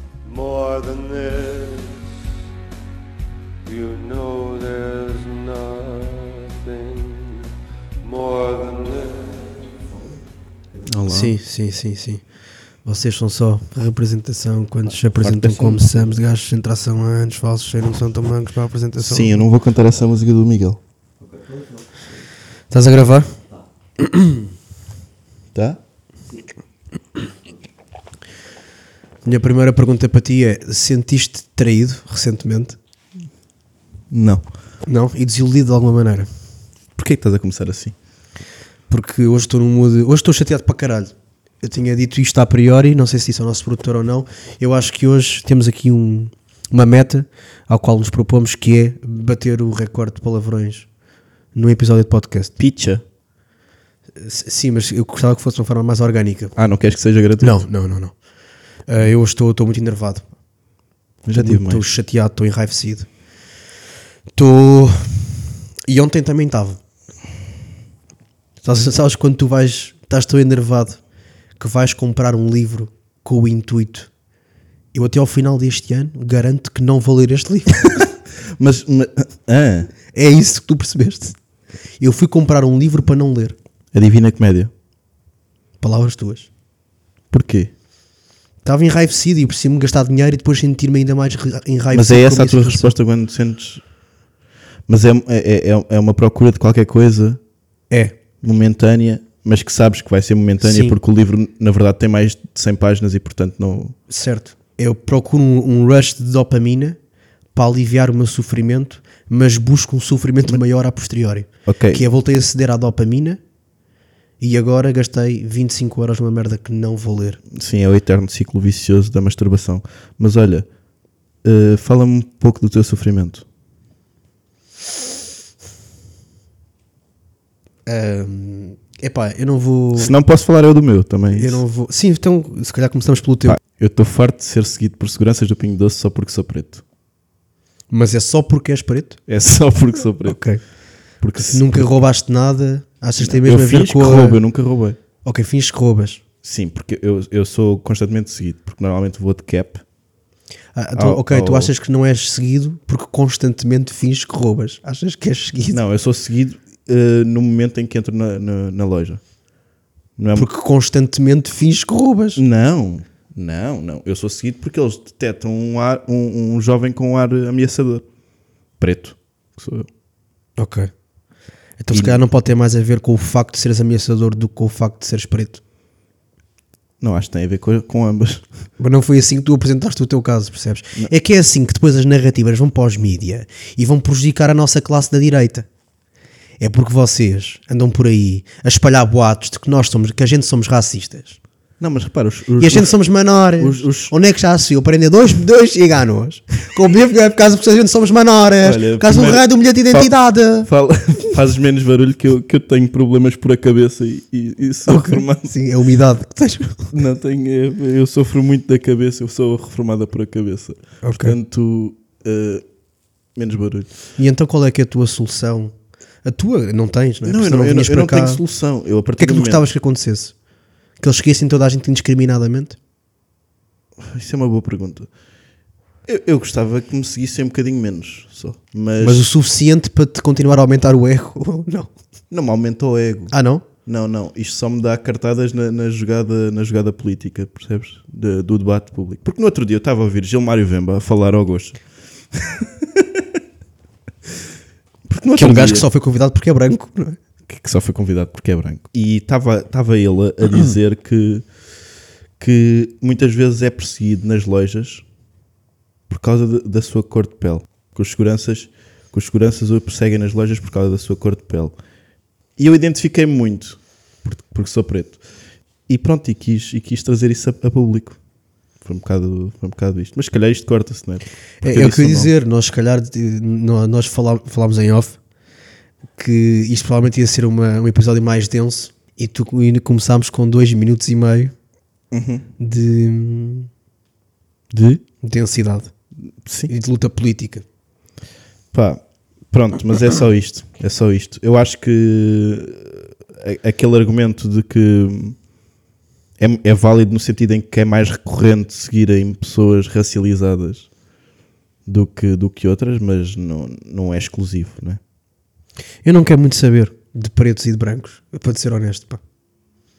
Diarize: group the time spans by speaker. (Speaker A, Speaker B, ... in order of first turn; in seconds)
Speaker A: 0.2-2.0, 3.6-7.5, 8.0-9.6
Speaker B: 10.9-11.3, 15.1-16.1, 19.0-20.8, 25.5-25.8, 34.1-34.5, 37.0-37.9, 52.6-53.0, 56.5-57.6, 61.2-61.8, 78.5-79.9, 83.9-84.7, 87.3-87.7, 91.9-93.8, 94.9-97.4, 98.4-104.0, 111.7-112.0, 117.5-120.7, 121.4-123.4, 129.9-131.6, 133.4-136.8, 139.3-140.4, 141.2-141.9, 143.2-145.0, 146.4-149.8, 150.9-151.7, 155.7-159.2, 160.2-160.5, 162.3-168.0, 168.8-169.9, 171.9-172.2, 177.0-178.4, 191.8-192.9, 193.6-194.1, 198.6-200.1, 200.6-205.5, 206.9-212.6, 213.3-213.9, 217.2-219.6, 224.0-225.1, 226.1-229.2, 232.3-241.8, 242.3-243.4, 245.1-245.9, 247.5-251.4, 252.4-255.0, 256.1-261.8, 262.6-265.2, 265.9-268.2, 268.8-272.3, 282.1-282.5, 284.7-285.0, 286.4-286.7, 288.7-295.4, 296.4-300.9, 301.9-305.0
Speaker C: 11.1-12.2, 12.8-19.4, 22.7-23.4, 24.0-24.4, 29.2-32.8, 34.9-36.3, 38.9-50.9, 51.5-52.5, 54.1-56.5, 57.4-58.1, 58.9-60.3, 61.3-63.1, 64.3-65.4, 65.9-66.8, 68.6-71.0, 71.6-74.1, 74.9-77.9, 80.1-81.3, 82.0-83.5, 85.8-86.5, 88.6-92.9, 97.9-98.2, 100.6-101.0, 104.1-107.0, 107.5-113.4, 114.4-117.4, 127.8-130.1, 131.3-133.6, 137.9-139.2, 140.2-140.6, 141.4-144.4, 145.2-146.2, 150.7-155.8, 160.3-162.4, 170.6-170.9, 171.8-175.6, 178.8-185.7, 186.6-191.4, 192.6-200.7, 204.9-206.9, 211.0-211.3, 214.2-218.4, 219.2-220.3, 221.0-222.8, 229.0-231.9, 233.3-233.7, 245.3-247.2, 271.6-275.2, 276.2-281.5, 282.6-283.7, 285.2-285.9, 286.7-287.6, 306.0-309.2